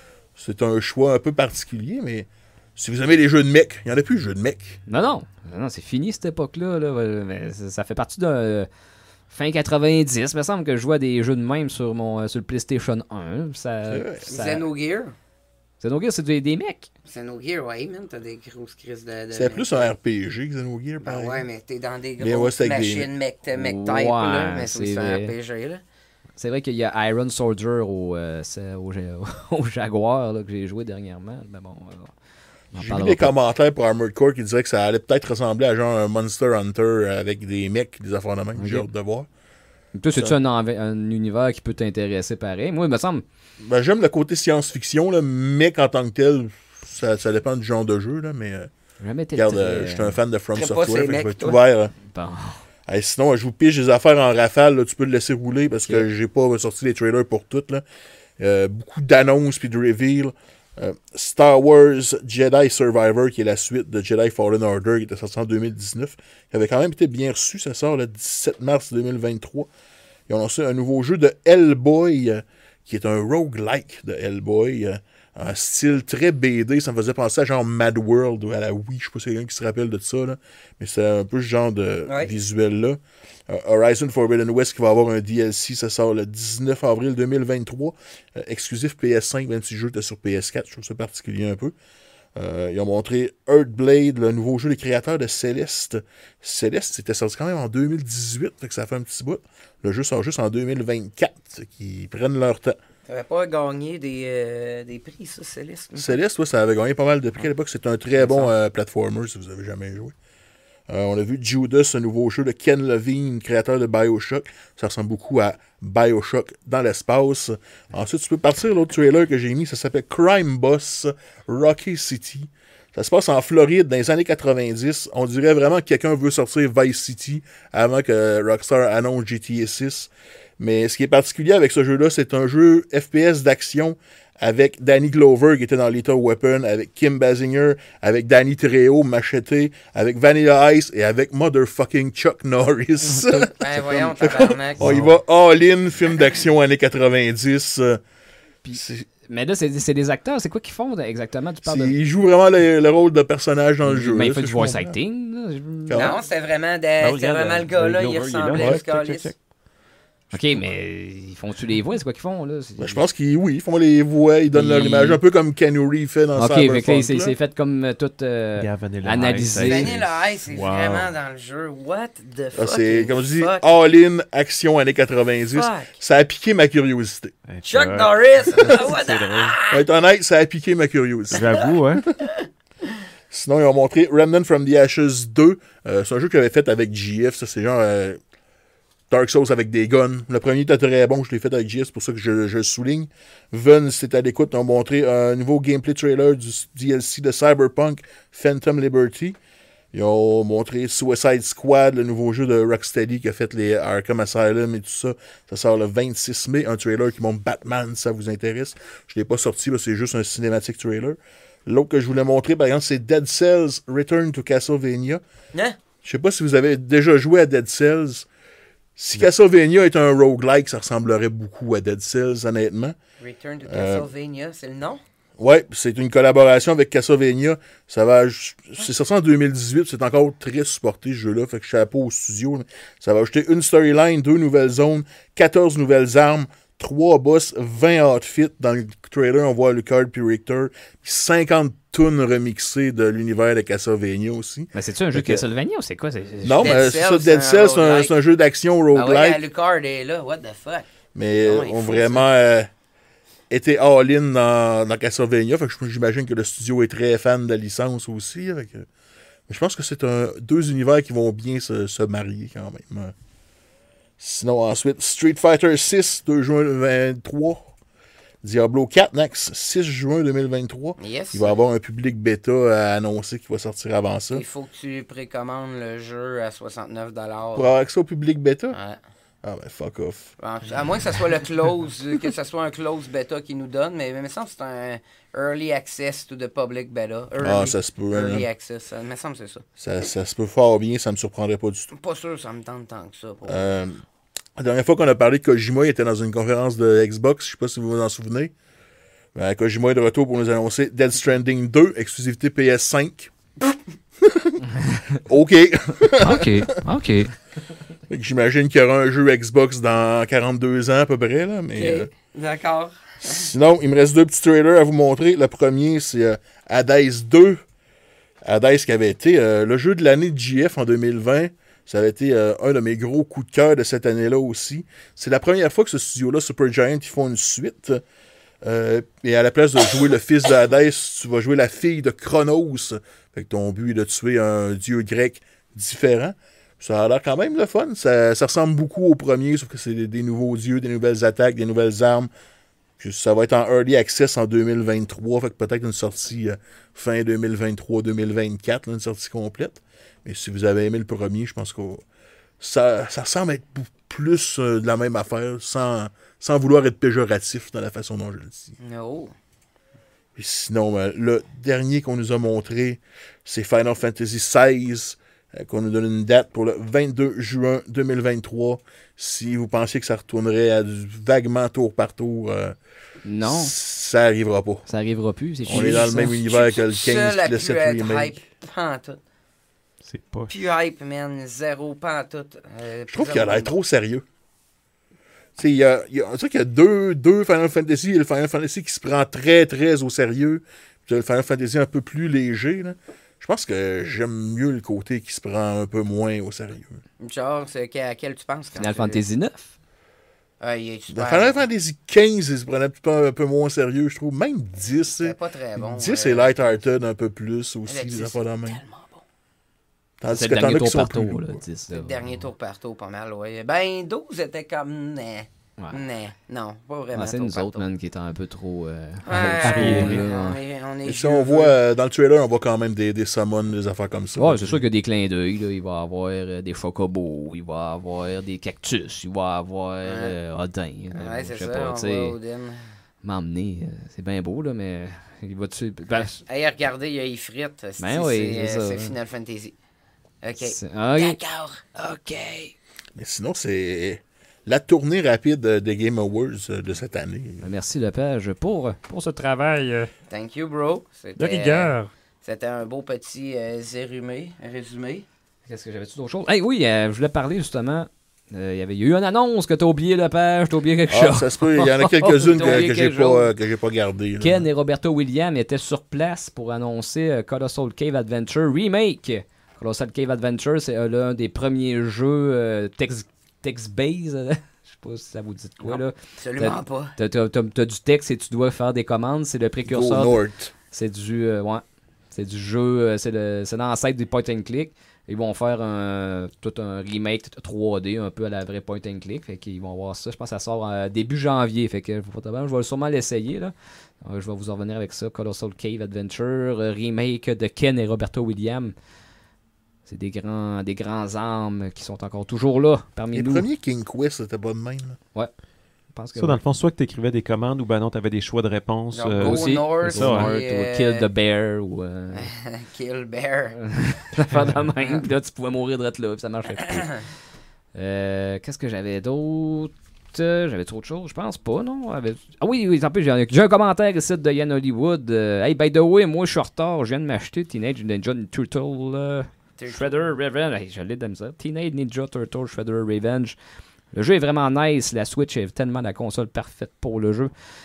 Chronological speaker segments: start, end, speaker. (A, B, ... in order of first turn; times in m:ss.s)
0:00.4-0:04.8 A
0:04.9-0:08.7 B
0:09.3-0:14.7 B
0:13.9-0:14.3 A
0:14.3-0:15.1 C
0:15.8-0:16.9 B
0:17.1-0:19.9 C
0:19.3-0:21.4 A
0:21.0-0:25.8 C
0:22.2-0:23.1 A
0:23.5-0:25.3 B
0:26.4-0:32.1 B
0:32.7-0:33.4 B
0:32.8-0:39.3 A
0:38.6-0:38.9 B
0:40.0-0:43.2 B
0:43.6-0:48.7 A
0:49.0-0:50.2 B
0:49.3-0:51.9 A
0:50.6-0:51.6 C
0:52.1-0:52.6 B
0:52.9-0:57.8 A
0:58.4-1:09.7 A
1:10.3-1:31.7 A
1:32.4-1:42.8 A
1:43.1-1:46.2 C
1:46.0-1:50.1 A
1:50.9-2:28.0 A
2:23.3-2:24.9 C
2:28.6-2:32.0 B
2:28.7-2:29.1 A
2:31.6-2:35.0 A
2:33.9-2:36.1 B
2:35.9-2:36.2 A
2:35.9-2:39.3 C
2:37.0-2:39.4 D
2:38.6-2:38.8 A
2:40.3-2:43.0 B
2:42.8-2:47.3 A
2:44.5-2:45.2 B
2:46.4-2:49.9 B
2:48.6-2:51.1 D
2:49.6-2:53.6 C
2:52.5-2:57.3 A
2:55.5-2:55.9 C
2:57.5-2:59.6 D
2:57.6-2:59.8 C
2:59.7-3:01.7 A
3:01.3-3:02.1 D
3:03.3-3:08.2 A
3:09.1-3:19.4 A
3:19.9-3:35.2 A
3:36.0-3:38.3 A
3:39.0-3:43.0 A
3:43.2-3:45.0 C
3:43.7-3:44.1 A
3:45.4-4:05.4 A
4:04.7-4:06.8 B
4:06.4-4:09.4 A
4:06.6-4:08.1 C
4:08.9-4:10.9 C
4:11.1-4:12.7 A
4:11.4-4:12.2 C
4:13.5-4:18.9 A
4:19.5-4:23.1 A
4:24.2-4:27.8 A
4:28.4-4:34.4 A
4:31.0-4:31.6 C
4:34.3-4:37.7 C
4:37.6-4:38.8 A
4:38.7-4:39.0 C
4:39.4-4:40.3 A
4:40.4-4:49.6 C
4:47.4-4:48.5 A
4:49.8-4:51.9 A
4:51.9-4:53.8 C
4:53.5-4:54.0 A
4:54.6-4:58.5 A
4:59.4-5:03.3 A
5:04.2-5:04.6 A
5:05.2-5:06.8 A
5:06.2-5:07.3 B
5:08.1-5:12.1 A
5:11.8-5:13.5 C
5:13.2-5:17.6 A
5:18.4-5:28.0 A
5:28.6-5:42.3 A
5:43.0-5:52.0 A
5:52.6-5:58.8 A
5:58.8-5:59.3 C
6:00.4-6:12.8 A
6:13.2-6:13.7 B
6:13.4-6:14.9 A
6:14.9-6:16.4 B
6:15.7-6:18.4 A
6:15.7-6:19.2 C
6:20.0-6:20.5 D
6:20.5-6:23.7 C
6:23.1-6:24.2 A
6:25.6-6:37.0 A
6:37.2-6:39.2 C
6:38.8-6:39.8 B
6:40.6-6:41.6 C
6:41.1-6:48.8 A
6:45.2-6:46.6 C
6:47.9-6:49.2 C
6:50.2-6:51.6 A
6:50.3-6:52.4 B
6:51.9-6:57.9 C
6:57.1-7:00.6 B
6:59.2-7:01.8 C
6:59.6-7:00.3 D
7:01.0-7:04.8 A
7:04.4-7:12.4 B
7:10.0-7:10.4 C
7:11.1-7:12.8 C
7:13.2-7:16.4 B
7:16.4-7:19.8 C
7:18.0-7:19.2 B
7:20.4-7:22.8 C
7:20.6-7:21.4 B
7:23.2-7:27.7 A
7:27.6-7:29.9 B
7:30.3-7:35.3 C
7:35.7-7:43.5 B
7:41.1-7:44.7 A
7:42.5-7:42.9 C
7:44.4-8:00.4 B
7:55.8-7:57.1 C
7:59.9-8:00.7 A
8:00.9-8:18.9 B
8:20.1-8:23.7 B
8:23.3-8:25.2 A
8:26.1-8:26.6 B
8:26.4-8:30.5 D
8:29.1-8:31.3 C
8:29.4-8:32.5 B
8:32.3-8:33.9 C
8:34.0-8:37.2 B
8:35.0-8:35.2 C
8:37.9-8:53.6 B
8:49.8-8:50.3 C
8:54.1-8:57.5 B